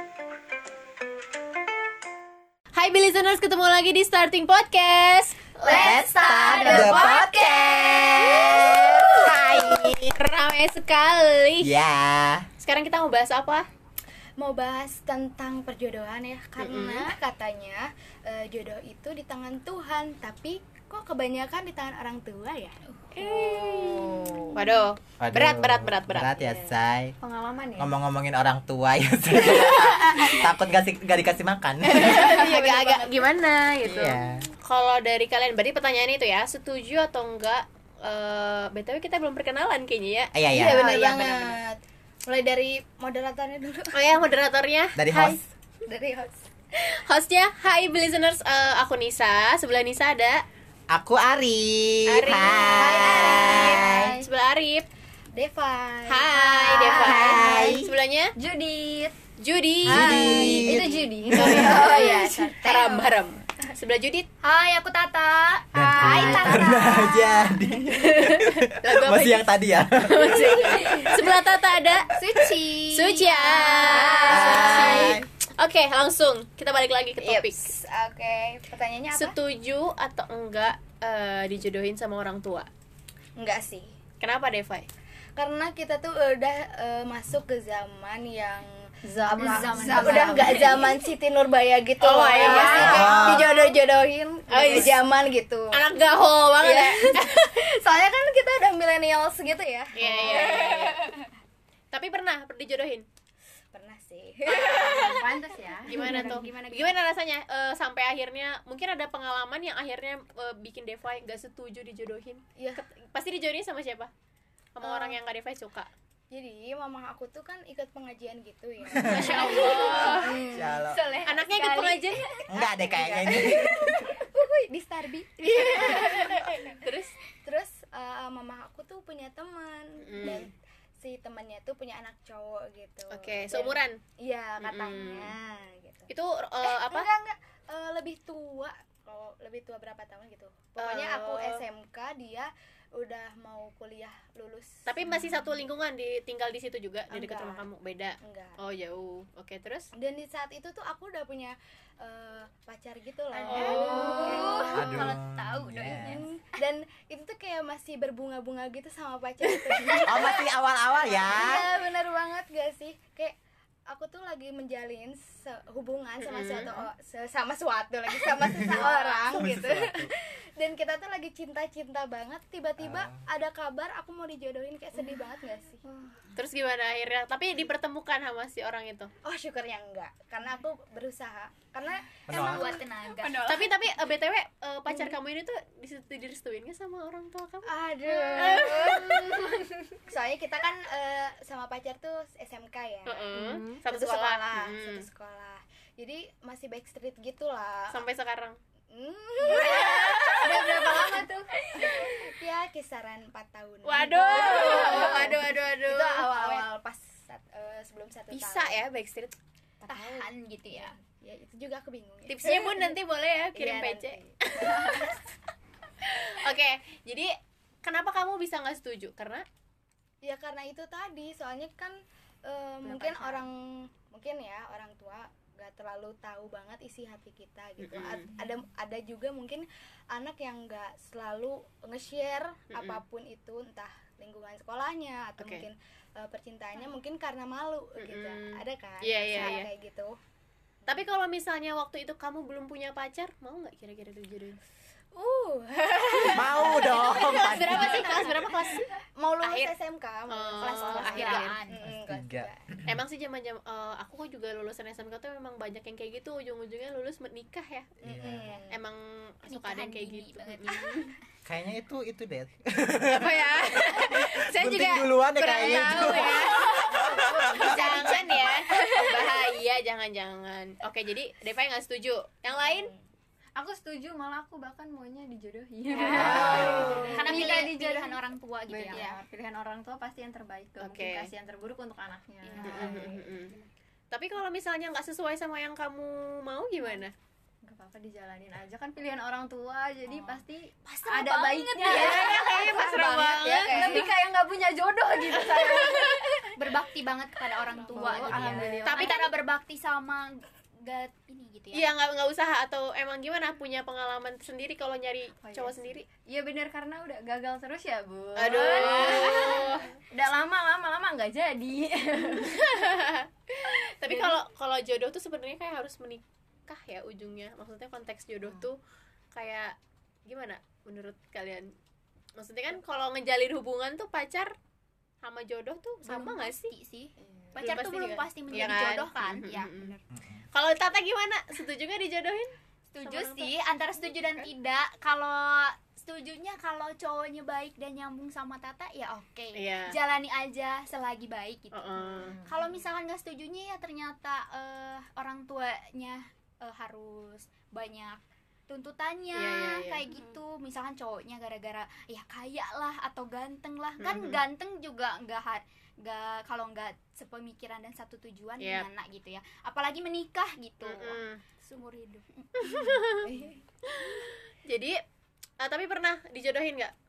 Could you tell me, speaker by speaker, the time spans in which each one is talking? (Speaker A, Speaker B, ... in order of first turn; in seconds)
Speaker A: 2.7-6.0, 8.5-11.8, 12.6-13.7, 16.6-17.1, 23.1-26.5, 29.5-30.3, 31.8-41.5, 43.9-45.4, 46.8-50.4, 52.0-54.9, 56.1-58.3, 59.4-60.7, 61.3-64.3, 68.1-72.1, 72.9-77.7, 79.1-82.7, 84.2-84.9, 92.0-93.6, 94.5-95.0, 95.7-97.5, 99.9-101.1, 101.9-103.1, 104.5-105.0, 105.8-114.1, 114.7-115.9, 119.1-120.5, 121.2-122.2, 125.7-127.1, 130.0-130.5, 133.1-134.0, 134.6-135.3, 136.1-137.1, 140.8-141.6, 144.8-149.9, 153.4-154.7, 166.2-166.8, 168.8-169.0, 176.3-179.1, 183.4-189.4, 193.1-195.1, 197.9-198.6, 199.5-201.2, 203.8-206.6, 208.3-209.3, 212.3-215.2, 216.0-219.4, 227.8-228.3, 232.7-233.0, 235.4-235.7, 238.0-239.7, 240.9-244.6, 246.8-249.7, 250.3-251.6, 252.8-258.0, 258.7-261.1, 263.1-266.9, 267.5-272.9, 276.1-277.0, 280.8-281.3, 282.6-283.5, 284.1-287.1, 291.8-294.0, 298.8-299.3, 301.7-306.1, 308.4-309.9, 312.4-318.8, 319.3-321.7, 322.4-324.5, 325.2-326.7, 327.6-329.9, 330.5-333.6, 339.6-340.0, 341.7-342.4, 349.3-350.1, 354.0-354.4, 358.6-358.9, 360.8-361.4, 362.6-363.3, 363.8-365.0, 365.6-366.9
Speaker B: 5.6-9.1, 14.4-24.6, 31.9-33.3, 40.5-44.2, 45.9-46.5, 52.7-54.3, 55.3-57.8, 59.9-63.1, 66.2-67.1, 73.6-75.1, 77.2-79.3, 83.3-83.9, 85.3-95.8, 96.6-101.3, 103.7-105.5, 112.6-112.8, 114.8-115.2, 116.3-121.2, 122.5-126.8, 127.4-136.1, 136.6-145.3, 147.1-147.7, 148.2-148.6, 149.9-155.2, 155.9-163.3, 163.9-175.8, 179.2-182.8, 184.9-185.2, 187.6-193.3, 193.9-198.0, 198.9-201.2, 201.8-208.8, 209.8-213.0, 213.5-215.2, 220.2-240.2, 245.1-252.6, 258.0-258.8, 267.0-268.5, 272.5-273.0, 276.2-277.5, 278.9-279.2, 292.1-294.1, 298.0-298.8, 363.2-363.6
Speaker C: 5.7-7.4, 58.5-58.9, 64.4-67.1, 72.1-74.7, 89.4-90.9, 92.4-93.0, 106.0-107.0, 119.3-120.2, 120.9-122.2, 153.3-156.2, 182.3-183.5, 204.5-205.0, 209.9-210.9, 247.9-248.4, 250.6-251.8, 259.4-261.1, 267.8-268.5, 275.9-279.1, 282.4-283.7, 290.1-292.8, 296.6-301.9, 326.0-330.0, 332.9-363.1
Speaker D: 5.7-10.2, 11.6-12.5, 25.2-27.1, 27.8-32.3, 33.8-34.5, 40.3-40.9, 45.0-45.5, 50.9-54.1, 56.9-57.9, 59.8-61.4, 65.7-71.2, 72.4-72.7, 74.3-75.2, 92.6-93.5, 118.9-119.4, 120.5-121.0, 122.5-124.2, 154.7-156.2, 160.0-161.7, 168.3-170.1, 172.8-173.2, 182.3-182.8, 246.3-248.1, 251.8-253.0, 258.0-258.6, 261.4-268.0, 276.1-277.0, 330.1-330.4
Speaker E: 24.1-24.6, 27.2-27.9, 58.4-59.1, 60.0-62.6, 66.1-66.6, 89.0-91.0, 92.4-93.2, 104.7-106.6, 120.9-121.3, 153.6-154.2, 175.8-176.3, 182.6-183.9, 193.3-193.8, 199.5-202.2, 204.4-205.1, 222.8-223.5, 273.6-283.5, 287.6-296.7, 297.8-299.3, 305.4-312.6, 314.0-314.4, 327.2-327.7, 334.1-334.5, 342.0-342.6